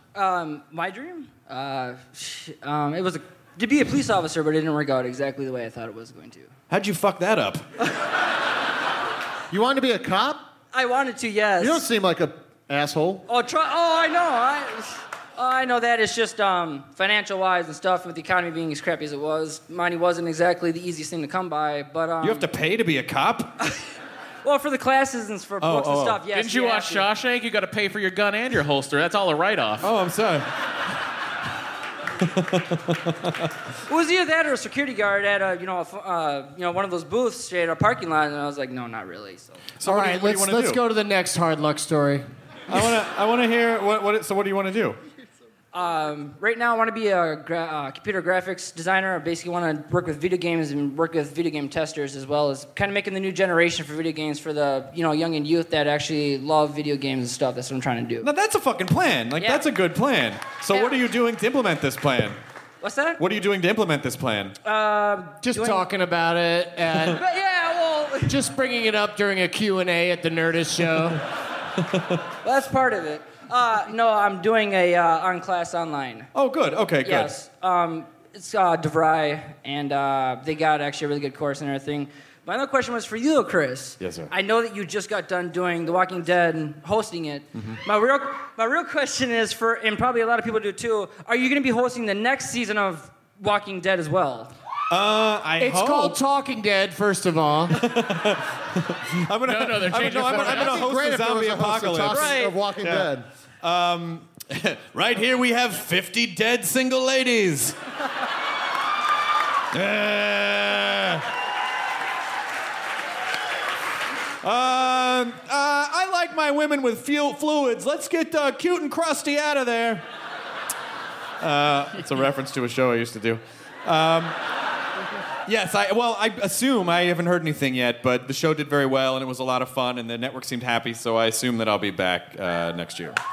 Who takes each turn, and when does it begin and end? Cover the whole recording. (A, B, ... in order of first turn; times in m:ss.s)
0:00.1-0:06.5 A
0:06.7-0:07.6 B
0:09.5-0:10.5 C
0:10.7-0:11.8 A
0:11.6-0:13.2 C
0:13.3-0:22.4 A
0:22.2-0:23.5 B
0:24.4-0:27.1 A
0:25.6-0:26.2 B
0:26.2-0:29.9 D
0:29.8-0:30.4 B
0:32.2-0:33.5 B
0:33.9-0:39.6 A
0:39.8-0:40.8 B
0:39.8-0:42.2 E
0:42.7-0:45.0 B
0:45.7-0:58.3 A
0:58.2-1:02.4 B
0:59.4-0:59.6 A
1:00.7-1:01.0 A
1:02.8-1:03.2 A
1:03.2-1:04.6 B
1:04.6-1:05.9 A
1:05.4-1:07.2 E
1:07.1-1:08.4 A
1:08.2-1:11.2 E
1:11.8-1:12.1 B
1:12.4-1:16.3 A
1:16.3-1:17.3 B
1:17.0-1:34.5 A
1:24.0-1:24.3 B
1:34.9-1:36.2 B
1:35.6-1:37.8 E
1:37.7-1:47.8 B
1:39.4-1:40.8 D
1:40.3-1:43.2 C
1:49.7-1:51.2 B
1:54.4-2:00.0 B
2:01.4-2:04.4 B
2:05.4-2:13.2 B